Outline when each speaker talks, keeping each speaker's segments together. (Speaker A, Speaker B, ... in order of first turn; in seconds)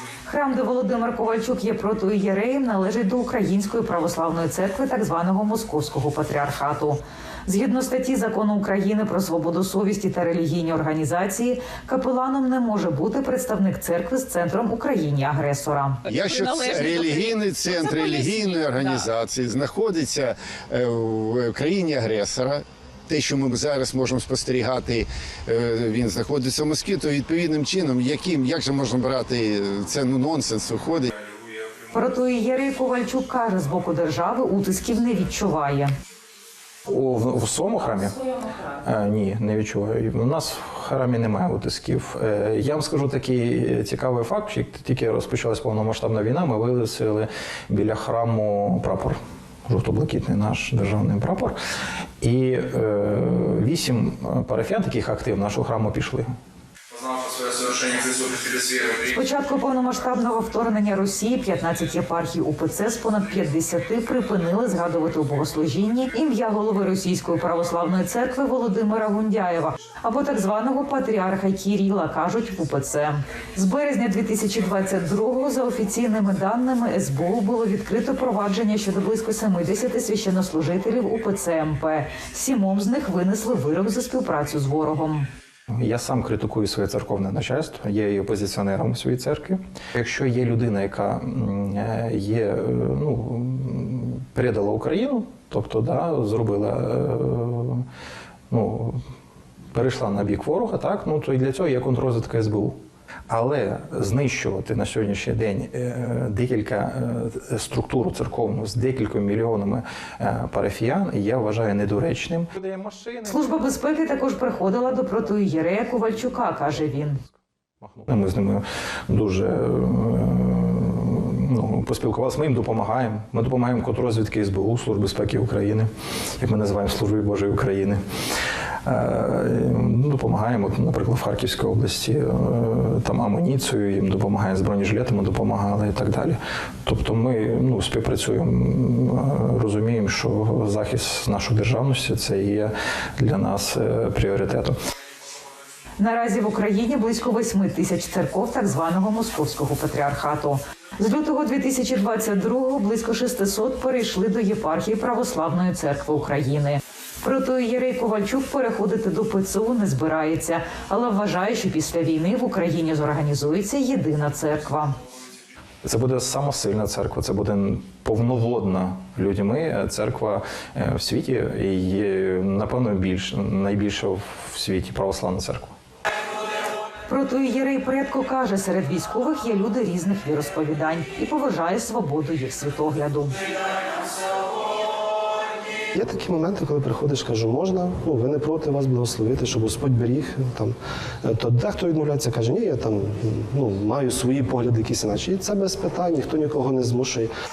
Speaker A: 0.2-17.0, 17.9-18.4, 31.9-35.9, 58.9-85.3, 113.2-117.2, 146.0-165.0, 177.1-183.3
Speaker B: 16.1-31.1
Speaker C: 36.9-38.2, 38.8-51.6, 52.2-56.3, 85.7-97.8, 98.5-99.0, 99.7-113.7, 117.8-128.0, 128.8-144.8, 165.8-175.7
Speaker D: 185.9-197.3